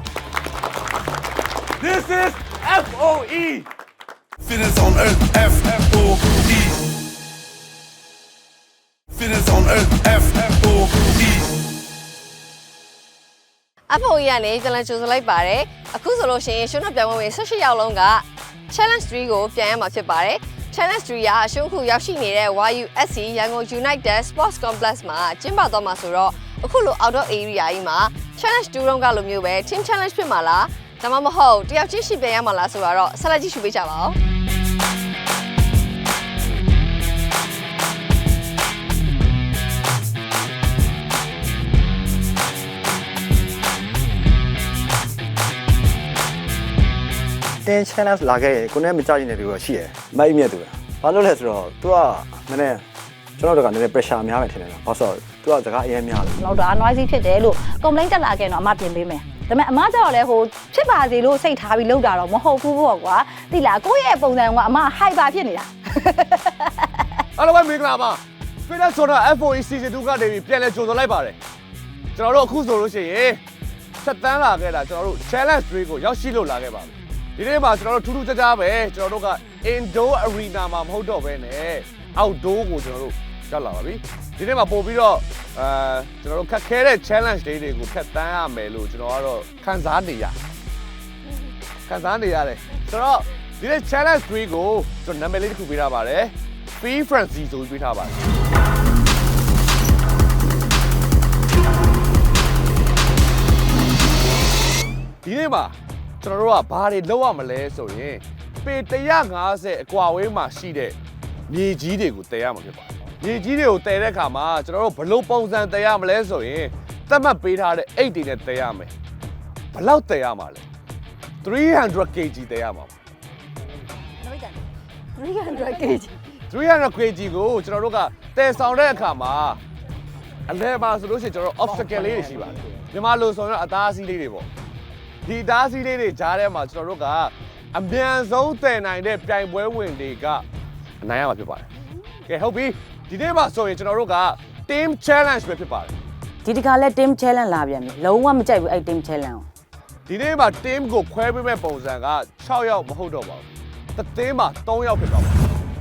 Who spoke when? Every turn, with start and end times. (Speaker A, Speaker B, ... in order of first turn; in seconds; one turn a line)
Speaker A: 1.8-3.7
Speaker B: 4.6-6.4
Speaker A: 5.5-5.8
Speaker B: 9.2-11.1
Speaker C: 13.9-34.2
Speaker D: 47.6-52.8
Speaker D: 53.4-56.3
Speaker E: 56.4-66.7
Speaker A: 67.3-71.4
Speaker A: 72.2-73.4
Speaker A: 74.0-90.3
Speaker A: 91.9-98.2
Speaker A: 105.2-111.0
Speaker A: 111.5-118.9
Speaker A: 119.7-120.6
Speaker A: 121.4-122.9
Speaker E: 125.2-126.0
Speaker A: 126.5-129.6
Speaker A: 130.5-134.5
Speaker A: 135.2-140.4
Speaker A: 141.0-141.7
Speaker A: 142.3-145.9
Speaker F: 146.4-149.4
Speaker A: 150.1-153.4
Speaker A: 153.9-155.4